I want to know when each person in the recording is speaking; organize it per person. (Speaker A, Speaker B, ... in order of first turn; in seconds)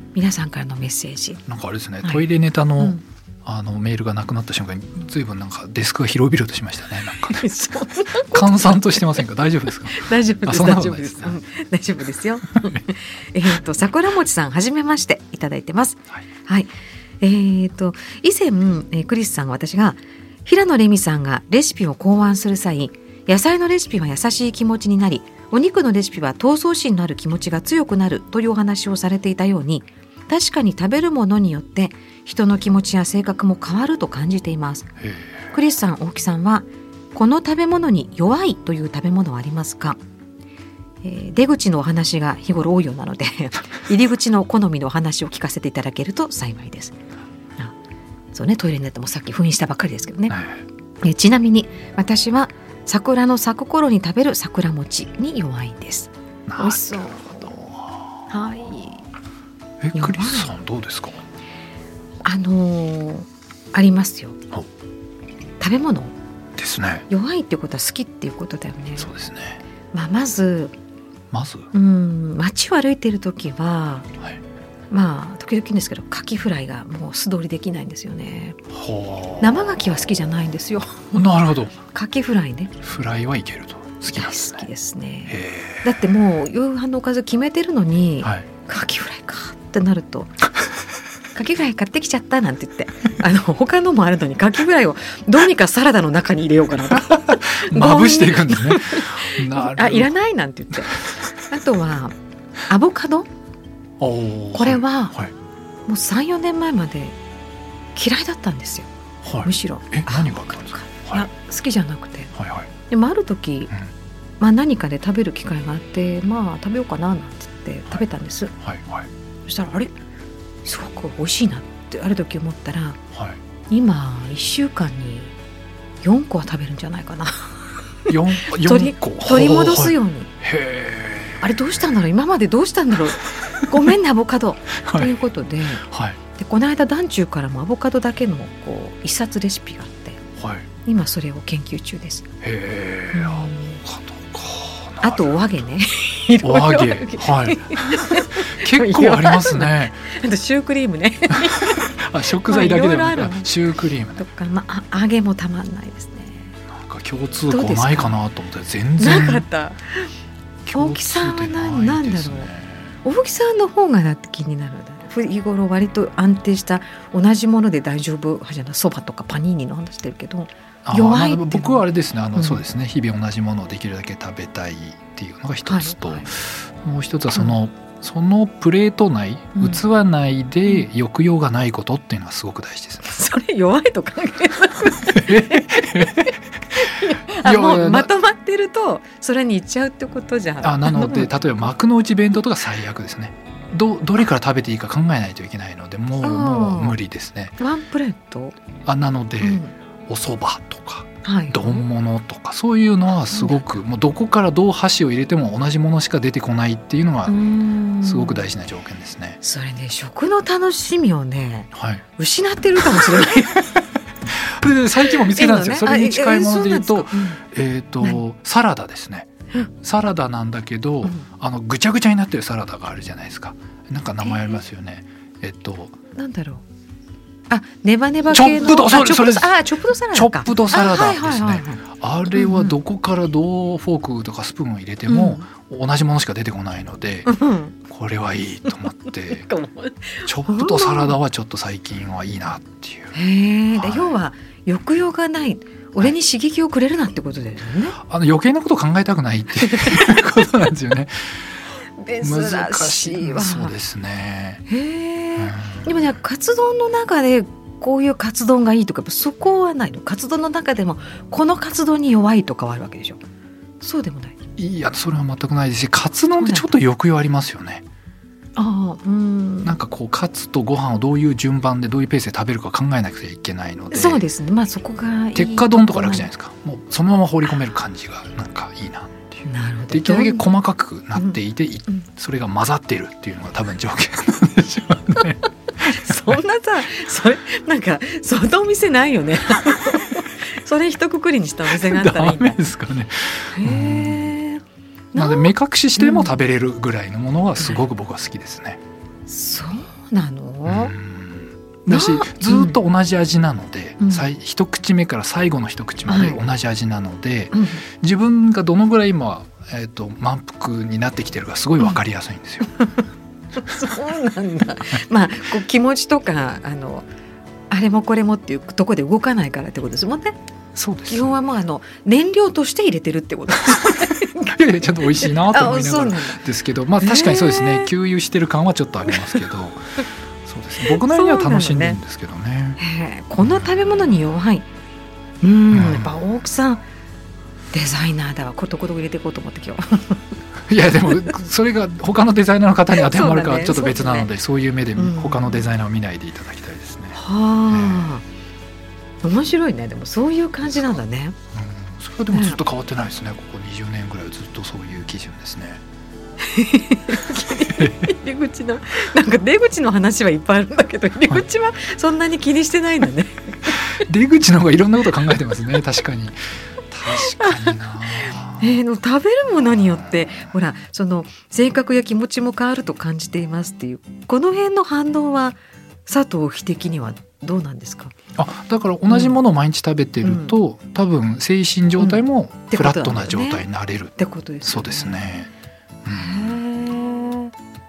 Speaker A: 0.1-1.4, 7.3-9.2, 9.9-16.7, 17.2-34.9, 35.5-40.0, 41.0-47.0, 48.3-50.4, 51.0-57.5, 58.3-59.1, 60.0-60.5, 62.2-64.4, 65.6-66.2, 67.1-69.1, 69.9-70.8, 71.7-74.1, 74.9-78.6, 79.4-81.2, 81.8-82.8, 84.1-90.4, 91.3-102.2, 102.7-103.3, 104.5-105.2, 105.9-107.2, 108.0-108.9, 109.4-112.3, 112.9-113.8, 114.4-118.5, 119.5-120.0, 120.7-123.0, 123.7-125.3, 126.0-130.3, 131.4-135.8, 136.3-140.2, 140.8-142.3, 143.1-143.8, 145.0-153.5, 154.2-156.5, 157.5-158.2, 159.0-160.1, 160.7-162.5, 163.0-171.8, 172.4-172.6, 175.7-176.3, 179.6-179.8, 183.0-191.3, 196.2-197.0, 197.6-198.6, 199.4-199.7, 201.2-201.8, 203.3-203.6, 207.3-208.5, 209.4-213.7, 215.1-217.4, 224.2-224.6, 226.2-226.6, 227.5-232.8, 235.1-235.4, 237.3-237.8, 239.4-241.2, 243.1-248.0, 249.7-250.0, 252.0-253.7, 254.7-263.2, 263.8-264.4, 266.4-266.8, 268.6-269.7, 273.9-276.3, 279.5-280.5, 281.1-282.1, 285.8-292.6, 293.5-296.3, 299.3-300.9, 301.9-302.8, 304.0-304.3, 306.1-306.4, 307.5-307.8, 313.6-317.1, 317.7-320.4, 321.1-326.4, 327.0-327.9, 330.8-332.0, 332.8-334.7, 335.4-336.8, 337.7-340.2, 342.9-344.3, 345.0-345.7, 347.1-348.2, 349.2-351.4, 352.3-352.6, 356.4-363.8, 367.1-378.1, 379.1-379.4, 380.2-380.5, 382.0-383.7, 384.2-385.2, 386.1-387.5
Speaker B: 1.5-7.5, 8.3-11.4, 35.0-35.5, 50.3-50.6, 56.5-58.2, 59.8-61.2, 66.6-67.1, 69.0-69.6, 71.3-71.7, 78.7-79.8, 81.1-81.8, 82.8-84.7, 85.3-85.9, 96.9-100.1, 104.0-105.3, 109.2-111.3, 112.3-112.7, 118.6-119.1, 123.1-123.4, 128.1-131.5, 134.8-135.1, 135.8-136.2, 140.4-140.7, 142.4-145.4, 146.4-150.1, 151.4-154.2, 156.7-159.5, 160.7-163.0, 170.8-183.1, 185.1-186.3, 186.9-188.1, 190.6-197.6, 198.9-207.4, 208.0-209.4, 211.8-212.0, 213.0-213.2, 214.3-219.3, 219.8-226.0, 228.3-229.6, 230.1-237.3, 237.8-239.5, 240.2-243.2, 243.8-244.2, 248.0-251.3, 252.2-254.6, 255.4-255.9, 264.6-267.9, 269.6-274.2, 275.4-286.4, 291.7-294.3, 295.1-298.8, 300.7-312.7, 320.8-321.4, 324.5-329.8, 330.4-332.8, 333.4-334.1, 335.7-336.1, 340.7-347.2, 347.7-348.1, 351.5-355.8, 357.8-358.1, 363.8-366.4, 366.9-368.8, 378.4-385.5, 386.1-386.6